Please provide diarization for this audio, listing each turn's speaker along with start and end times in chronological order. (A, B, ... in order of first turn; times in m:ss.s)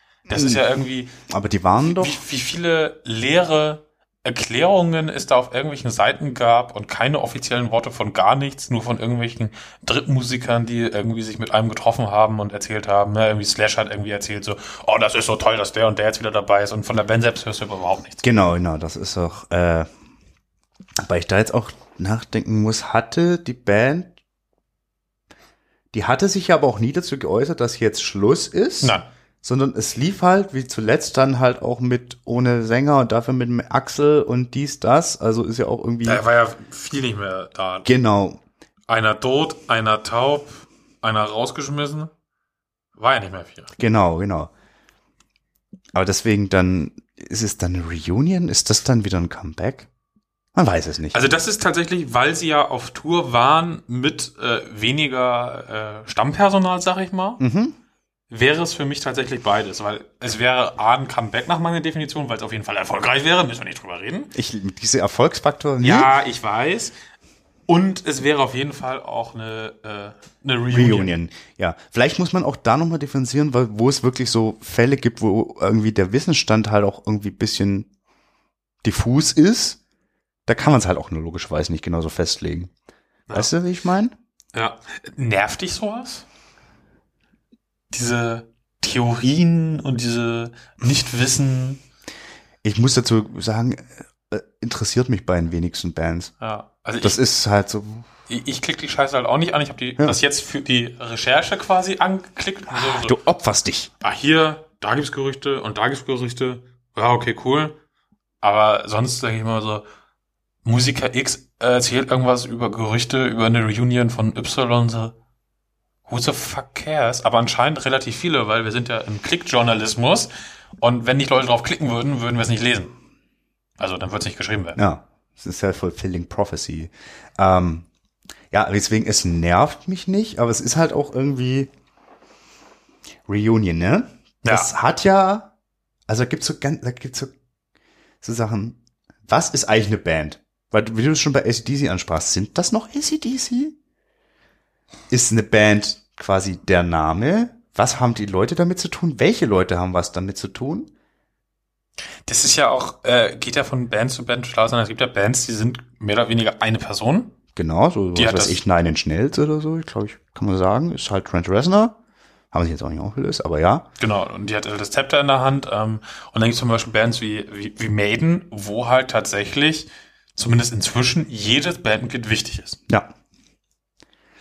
0:00.3-0:01.1 A
0:00.3-0:00.6 B
0:01.3-0:02.2 B
0:01.8-0:18.2 A
0:18.2-0:19.9 B
0:21.0-0:24.2 B
0:25.9-0:36.2 B
0:28.8-0:29.1 A
0:36.0-0:37.9 A
0:37.8-0:38.4 B
0:38.9-0:42.1 A
0:43.0-0:43.7 A
0:43.8-0:44.5 B
0:46.0-0:49.9 B
0:50.6-0:51.2 B
0:51.1-0:57.4 A
0:57.4-0:57.8 B
0:58.3-1:04.3 A
1:04.3-1:06.1 B
1:05.8-1:06.9 A
1:07.7-1:11.2 A
1:10.7-1:17.9 B
1:18.8-1:19.8 B
1:20.5-1:22.7 B
1:23.3-1:24.1 B
1:24.5-1:26.3 A
1:27.9-1:31.8 A
1:32.6-1:36.3 B
1:36.4-1:37.2 A
1:37.0-1:38.1 B
1:38.3-1:43.2 A
1:42.7-1:43.9 B
1:44.0-1:47.8 A
1:48.4-1:49.8 A
1:50.6-1:55.2 A
1:56.1-2:03.0 A
2:03.8-2:04.8 A
2:04.8-2:07.9 B
2:08.5-2:11.7 B
2:13.3-2:15.5 B
2:14.4-2:14.7 A
2:16.1-2:17.3 B
2:18.2-2:23.8 B
2:25.1-2:30.9 B
2:32.3-2:37.3 A
2:37.6-2:42.0 B
2:38.2-2:38.6 A
2:42.5-2:43.9 B
2:44.0-2:52.8 A